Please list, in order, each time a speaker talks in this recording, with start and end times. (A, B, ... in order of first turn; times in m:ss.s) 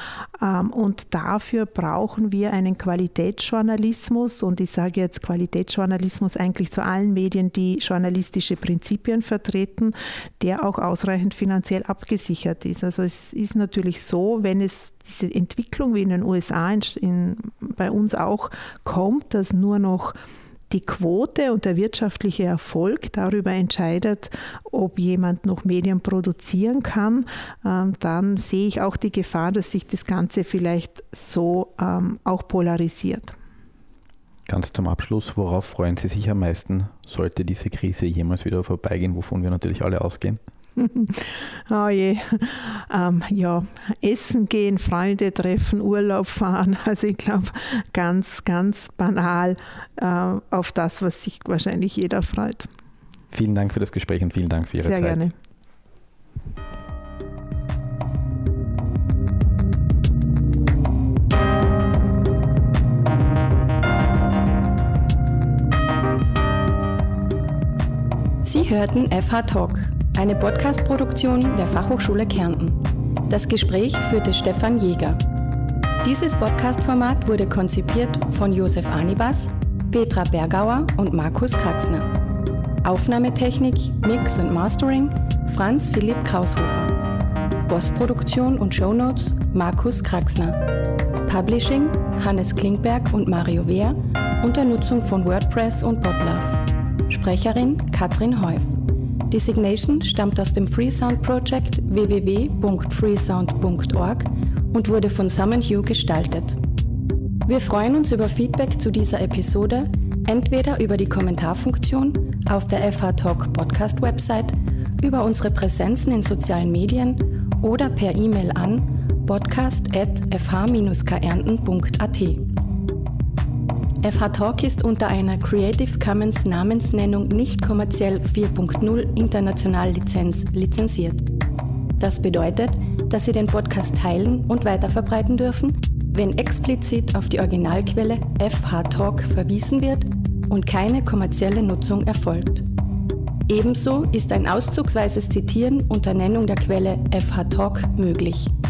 0:00.4-0:20.2 A
0:20.7-0:33.3 A
0:34.5-0:40.4 B
0:40.8-0:52.7 A
0:53.3-0:55.3 B
0:54.8-0:55.3 A
1:08.4-1:15.2 C
1:16.0-1:22.1 C
1:22.8-1:27.0 C
1:27.6-1:30.6 C
1:31.2-1:38.7 C
1:39.3-1:46.6 C
1:47.4-2:02.5 C
2:04.0-2:11.3 C
2:12.0-2:22.7 C
2:23.5-2:28.5 C